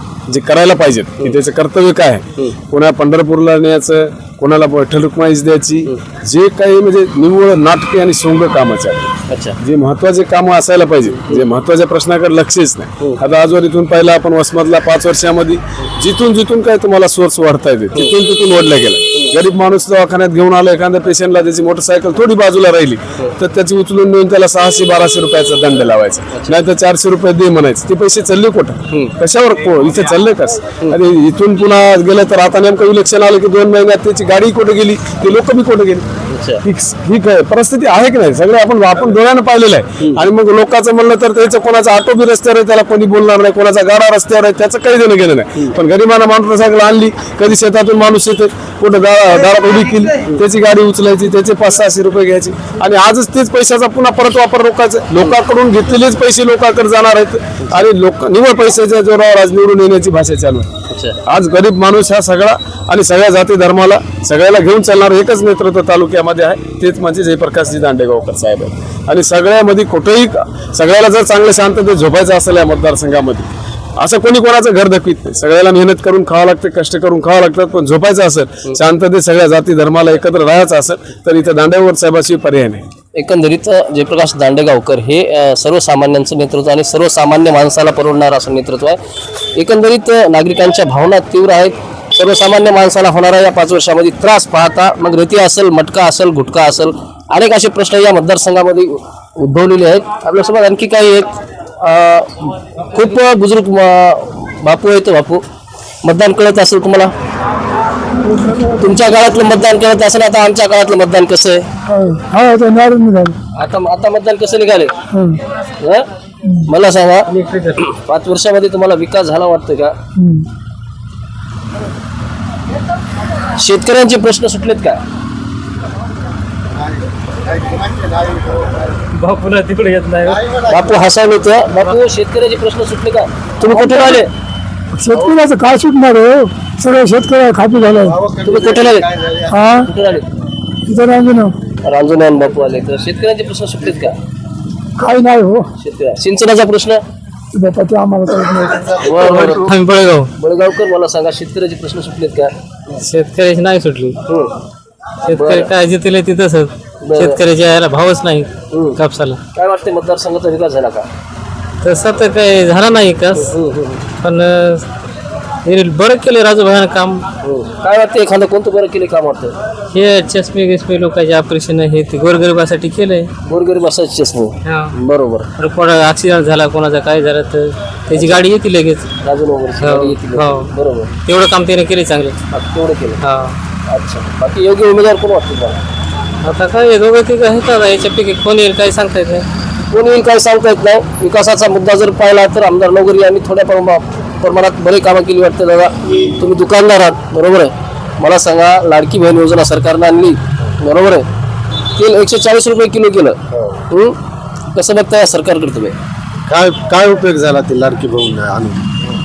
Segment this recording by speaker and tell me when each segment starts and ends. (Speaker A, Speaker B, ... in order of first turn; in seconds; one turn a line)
Speaker A: 0.3-36.0
Speaker B: 9.3-9.6
Speaker B: 36.3-36.6
Speaker A: 36.6-60.7
Speaker B: 60.9-61.2
Speaker A: 61.2-82.8
Speaker B: 83.1-89.0
Speaker B: 89.5-105.4
Speaker B: 106.0-107.1
Speaker B: 108.8-111.6
Speaker C: 111.9-113.3
Speaker B: 113.5-114.9
Speaker B: 115.8-116.0
Speaker B: 116.6-117.3
Speaker D: 117.4-117.7
Speaker B: 118.0-119.9
Speaker B: 123.6-125.0
Speaker E: 127.6-128.7
Speaker D: 129.1-130.4
Speaker E: 130.2-130.9
Speaker B: 130.7-134.3
Speaker C: 133.7-134.2
Speaker C: 135.0-138.1
Speaker E: 138.0-139.6
Speaker B: 138.4-139.1
Speaker C: 139.5-139.9
Speaker B: 139.7-140.3
Speaker C: 140.9-141.5
Speaker B: 141.8-144.1
Speaker C: 145.0-145.6
Speaker B: 145.8-147.0
Speaker C: 147.5-148.6
Speaker B: 149.0-149.7
Speaker D: 149.5-150.3
Speaker B: 150.4-152.5
Speaker D: 152.9-154.2
Speaker B: 154.3-154.5
Speaker D: 155.3-159.4
Speaker B: 155.3-155.7
Speaker B: 157.0-157.4
Speaker B: 158.7-159.0
Speaker B: 159.5-161.1
Speaker D: 161.8-163.5
Speaker B: 163.3-164.0
Speaker D: 164.2-164.8
Speaker D: 165.6-167.2
Speaker B: 167.4-169.5
Speaker D: 169.9-173.3
Speaker B: 173.4-175.5
Speaker D: 174.6-174.9
Speaker D: 175.6-179.0
Speaker B: 178.1-178.4
Speaker B: 179.2-181.1
Speaker D: 179.8-180.7
Speaker D: 181.2-182.4
Speaker B: 182.5-183.2
Speaker D: 183.2-183.5
Speaker B: 183.9-185.8
Speaker D: 186.4-189.5
Speaker B: 189.9-201.2
Speaker B: 202.0-203.4
Speaker E: 203.5-203.8
Speaker B: 203.9-204.2
Speaker B: 204.7-205.9
Speaker E: 206.5-208.8